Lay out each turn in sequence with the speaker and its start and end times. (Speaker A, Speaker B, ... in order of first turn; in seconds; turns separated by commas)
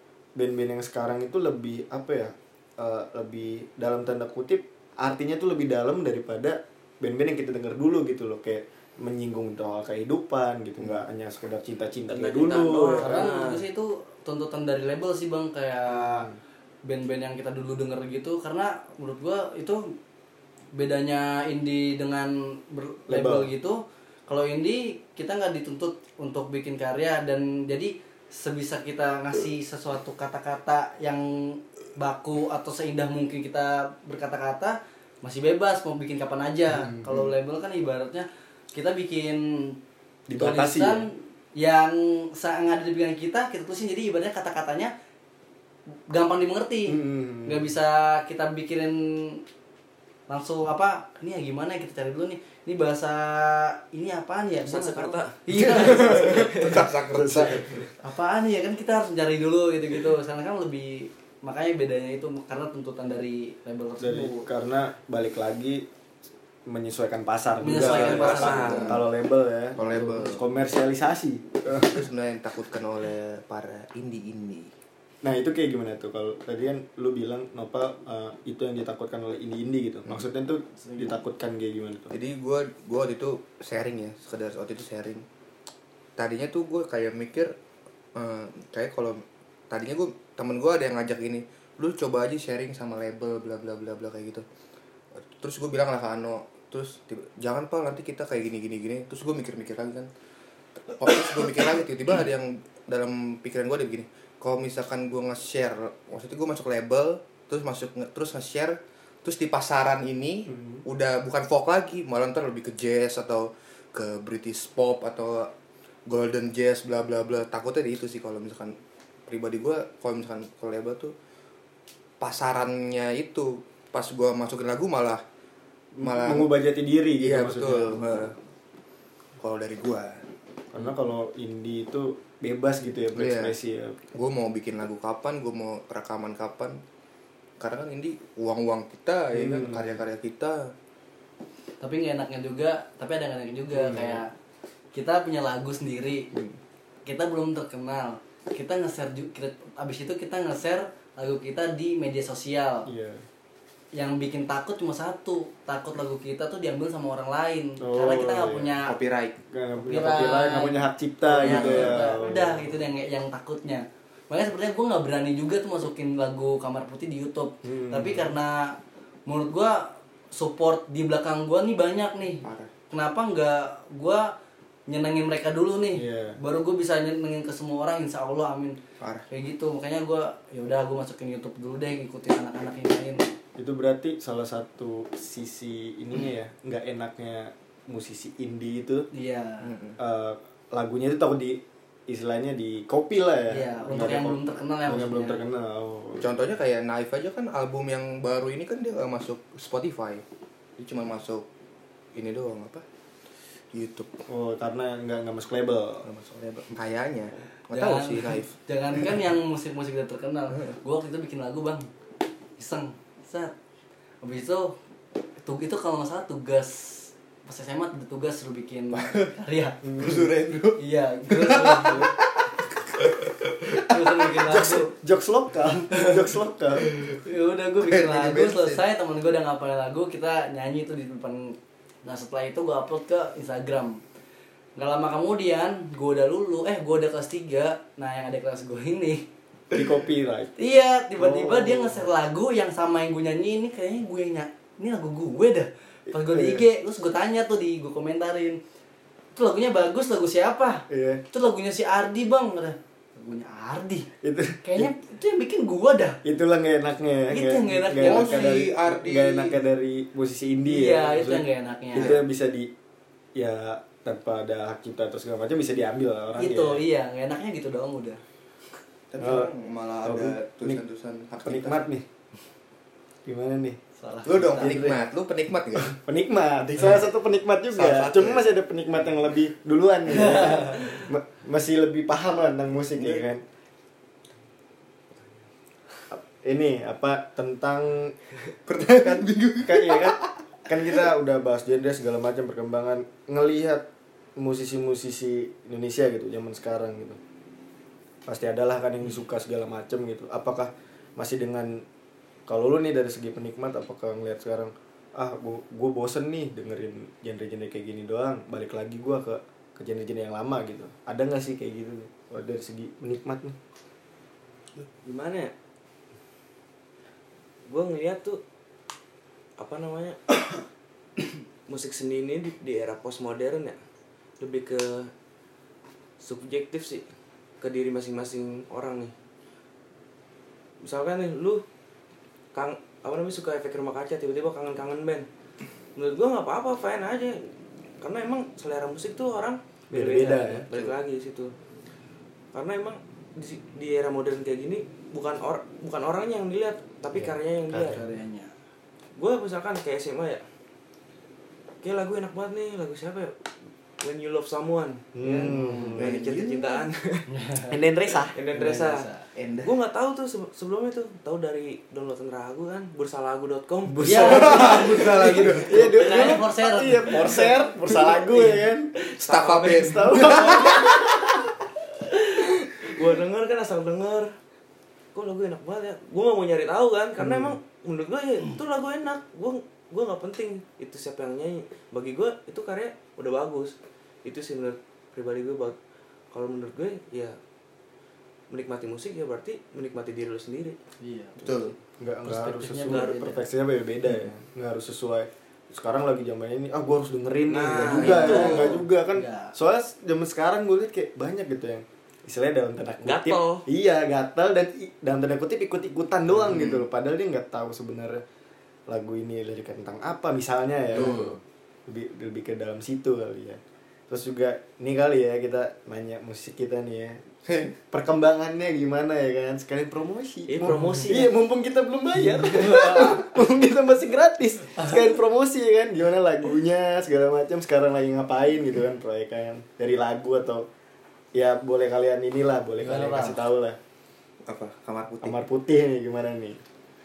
Speaker A: 0.4-13.3, Speaker B: 12.1-13.7, Speaker C: 13.0-16.3, Speaker A: 15.9-16.3, Speaker C: 16.8-19.9, Speaker C: 20.8-39.8, Speaker A: 23.1-23.5, Speaker A: 36.8-37.3, Speaker A: 40.3-41.1, Speaker C: 40.4-44.9, Speaker C: 46.1-49.4, Speaker A: 46.9-47.7, Speaker C: 50.3-56.6, Speaker B: 54.6-56.8, Speaker A: 55.5-56.5, Speaker D: 55.8-57.9, Speaker A: 57.1-57.9, Speaker C: 58.0-64.5, Speaker A: 64.0-65.9, Speaker A: 66.7-72.0, Speaker C: 67.6-69.0, Speaker D: 67.7-69.1, Speaker B: 67.8-69.0, Speaker D: 69.8-70.4, Speaker D: 71.7-74.7, Speaker A: 75.2-82.1, Speaker C: 80.8-81.2, Speaker D: 82.1-85.2, Speaker D: 86.2-87.5, Speaker D: 88.2-94.5, Speaker D: 95.3-100.1, Speaker D: 100.9-115.5, Speaker A: 110.5-110.8, Speaker D: 116.1-118.8, Speaker D: 119.3-121.1, Speaker D: 122.2-125.2, Speaker A: 126.0-128.3, Speaker D: 126.0-126.5, Speaker D: 127.2-128.3, Speaker D: 129.4-130.3, Speaker A: 130.7-134.1, Speaker D: 133.2-133.5, Speaker D: 134.1-136.8, Speaker D: 137.6-140.7, Speaker A: 139.3-139.9, Speaker C: 141.8-144.3, Speaker A: 143.7-144.2, Speaker C: 144.9-146.3, Speaker A: 146.3-146.6, Speaker C: 147.1-152.9, Speaker A: 152.9-153.2, Speaker C: 153.9-158.9, Speaker A: 157.8-158.8, Speaker D: 158.8-159.4, Speaker A: 159.5-162.7, Speaker C: 159.8-168.8, Speaker D: 161.4-162.1, Speaker A: 167.6-168.4, Speaker C: 169.3-174.3, Speaker D: 172.4-172.7, Speaker C: 174.9-178.8, Speaker A: 175.9-176.4, Speaker D: 179.0-179.3, Speaker C: 179.3-183.2, Speaker A: 183.6-189.1, Speaker C: 189.1-189.7, Speaker D: 189.6-190.0, Speaker A: 190.0-196.3, Speaker C: 193.5-195.4, Speaker D: 196.2-200.2, Speaker D: 200.8-201.5, Speaker D: 202.2-202.8, Speaker D: 203.7-204.1, Speaker A: 204.3-206.1, Speaker D: 206.0-208.5, Speaker C: 207.7-211.9, Speaker C: 212.6-213.5, Speaker C: 214.2-214.8, Speaker C: 215.4-219.8, Speaker D: 218.9-219.3, Speaker A: 219.8-220.3, Speaker D: 220.0-220.8, Speaker C: 220.8-222.1, Speaker D: 221.3-223.9, Speaker C: 223.8-224.9, Speaker A: 224.4-226.9, Speaker C: 227.2-234.0, Speaker D: 227.8-228.8, Speaker C: 234.8-239.3, Speaker A: 239.7-240.5, Speaker C: 240.6-248.6, Speaker A: 241.2-242.1, Speaker A: 246.1-246.7, Speaker C: 249.3-254.1, Speaker A: 250.9-251.2, Speaker A: 254.2-254.9, Speaker C: 254.6-256.2, Speaker A: 256.2-262.7, Speaker C: 257.3-258.6, Speaker D: 258.0-259.5, Speaker C: 260.6-262.2, Speaker D: 262.0-262.2, Speaker A: 263.4-266.8, Speaker C: 266.4-268.2, Speaker D: 269.1-271.9, Speaker A: 269.2-269.5, Speaker A: 270.0-270.8, Speaker A: 271.4-272.1, Speaker A: 273.2-273.8, Speaker C: 274.0-274.8, Speaker D: 274.2-276.0, Speaker A: 274.6-275.0, Speaker A: 275.8-283.4, Speaker D: 276.8-277.0, Speaker D: 277.7-278.6, Speaker C: 280.1-281.0, Speaker A: 286.1-288.1, Speaker D: 288.7-290.3, Speaker A: 289.6-297.2, Speaker A: 298.3-301.9, Speaker A: 302.5-313.6, Speaker B: 314.8-315.5, Speaker B: 317.7-318.4, Speaker B: 319.6-320.4, Speaker B: 321.7-323.8, Speaker B: 324.4-325.1, Speaker B: 326.2-327.1, Speaker B: 327.6-329.1, Speaker B: 330.8-331.6, Speaker B: 332.5-335.3, Speaker B: 336.0-337.5, Speaker B: 338.0-341.5, Speaker A: 339.9-340.7, Speaker B: 342.5-348.0, Speaker A: 347.1-348.0, Speaker C: 347.9-348.5, Speaker B: 349.2-350.4, Speaker B: 351.8-353.4, Speaker B: 354.0-357.3, Speaker A: 355.1-356.1, Speaker C: 355.2-356.0, Speaker D: 356.0-356.9, Speaker C: 357.3-357.7, Speaker A: 357.7-358.4, Speaker B: 358.2-359.1, Speaker C: 358.5-359.3, Speaker D: 359.4-359.7, Speaker B: 359.6-366.4, Speaker A: 363.9-364.9, Speaker C: 364.0-368.7, Speaker D: 364.1-365.7, Speaker A: 365.6-369.1, Speaker B: 369.1-371.1, Speaker D: 369.2-370.9, Speaker A: 369.7-371.3, Speaker B: 372.1-374.3, Speaker B: 375.1-385.8, Speaker B: 386.3-387.4, Speaker B: 388.5-390.8, Speaker C: 391.0-393.4, Speaker D: 391.4-391.7, Speaker A: 392.0-408.2, Speaker B: 392.9-393.4, Speaker B: 397.5-398.8, Speaker D: 397.7-398.8, Speaker C: 398.0-399.5, Speaker B: 403.0-403.6, Speaker D: 406.3-406.9, Speaker A: 408.9-411.3, Speaker D: 410.9-411.4, Speaker A: 411.9-430.7, Speaker B: 420.5-421.3, Speaker C: 422.7-423.0, Speaker A: 431.3-433.8, Speaker C: 432.8-433.4, Speaker D: 434.5-435.4, Speaker A: 435.2-436.6